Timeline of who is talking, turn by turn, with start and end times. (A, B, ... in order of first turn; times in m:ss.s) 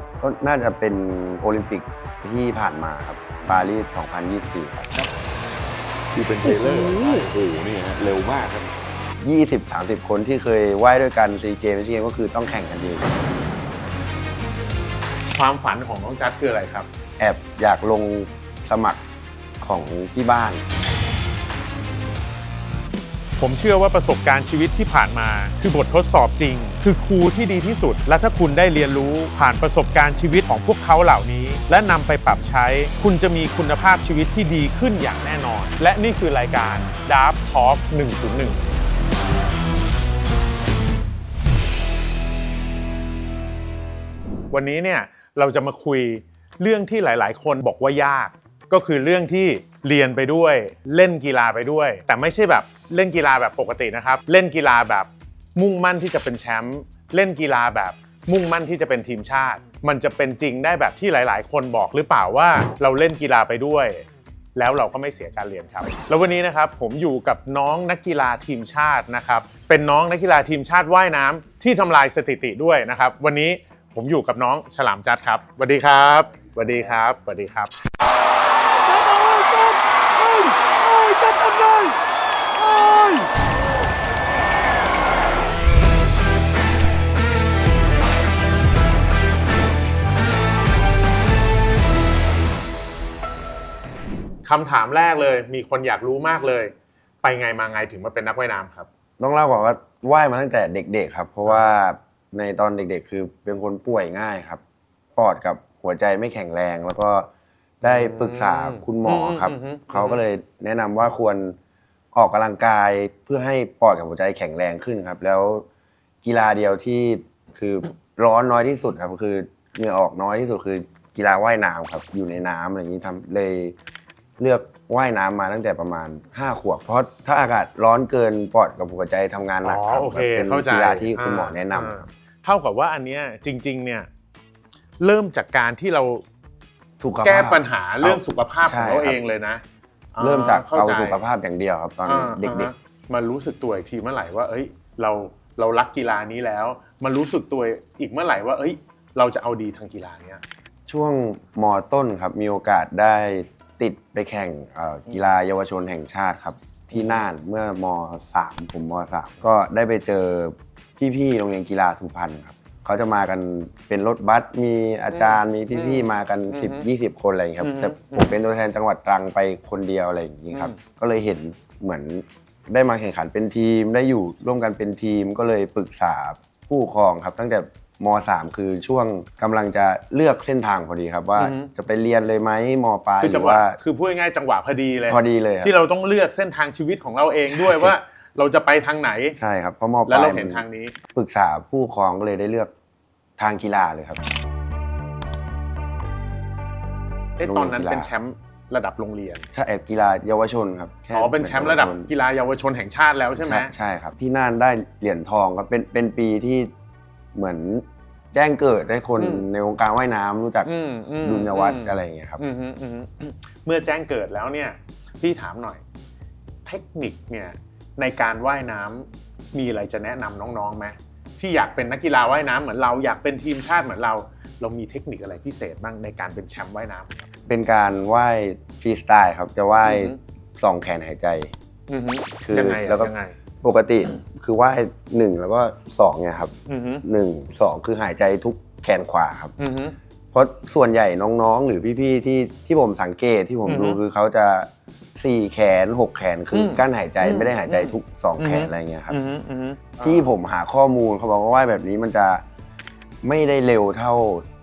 0:00.2-0:04.9 A
0:06.1-0:08.7 B
0:09.2-0:13.1 A
0:15.3-0:16.9 C
0:17.2-0:19.0 A
0:19.6-0:20.6 A
0:23.4-0:38.6 C
0:44.5-1:04.0 C
1:04.6-1:17.7 C
1:19.0-1:19.4 C
1:20.3-1:21.8 C
1:22.8-1:23.2 C
1:34.4-1:38.9 C
1:39.2-1:44.6 A
1:45.2-1:47.3 A
1:47.8-1:51.6 A
1:47.8-1:50.2 C
1:52.1-1:55.7 A
1:56.2-2:03.8 A
2:04.4-2:12.1 A
2:09.6-2:14.1 C
2:15.0-2:16.2 C
2:17.0-2:19.2 A
2:17.2-2:19.6 C
2:20.1-2:21.2 C
2:20.2-2:22.7 A
2:22.1-2:30.4 C
2:30.9-3:03.8 A
2:36.9-2:37.3 C
2:45.1-2:46.8 C
2:47.6-2:48.3 C
2:50.5-2:50.8 C
3:01.4-3:01.7 C
3:03.2-3:09.4 C
3:05.1-3:05.7 A
3:07.5-3:07.9 A
3:09.4-3:12.7 A
3:10.1-3:11.0 C
3:13.4-3:14.2 A
3:17.4-3:19.5 C
3:17.4-3:18.1 A
3:19.5-3:22.1 A
3:21.1-3:23.7 C
3:23.4-3:26.7 A
3:27.3-3:30.7 A
3:29.2-3:29.4 C
3:30.6-3:35.8 C
3:31.2-3:32.4 A
3:36.6-3:47.2 C
3:47.5-3:51.5 A
3:49.8-3:50.2 C
3:51.9-3:53.4 C
3:52.4-3:59.5 A
3:56.7-3:57.0 C
3:59.6-4:00.0 C
4:00.3-4:09.2 A
4:03.7-4:04.0 C
4:06.5-4:10.3 C
4:10.0-4:12.4 A
4:13.2-4:14.4 A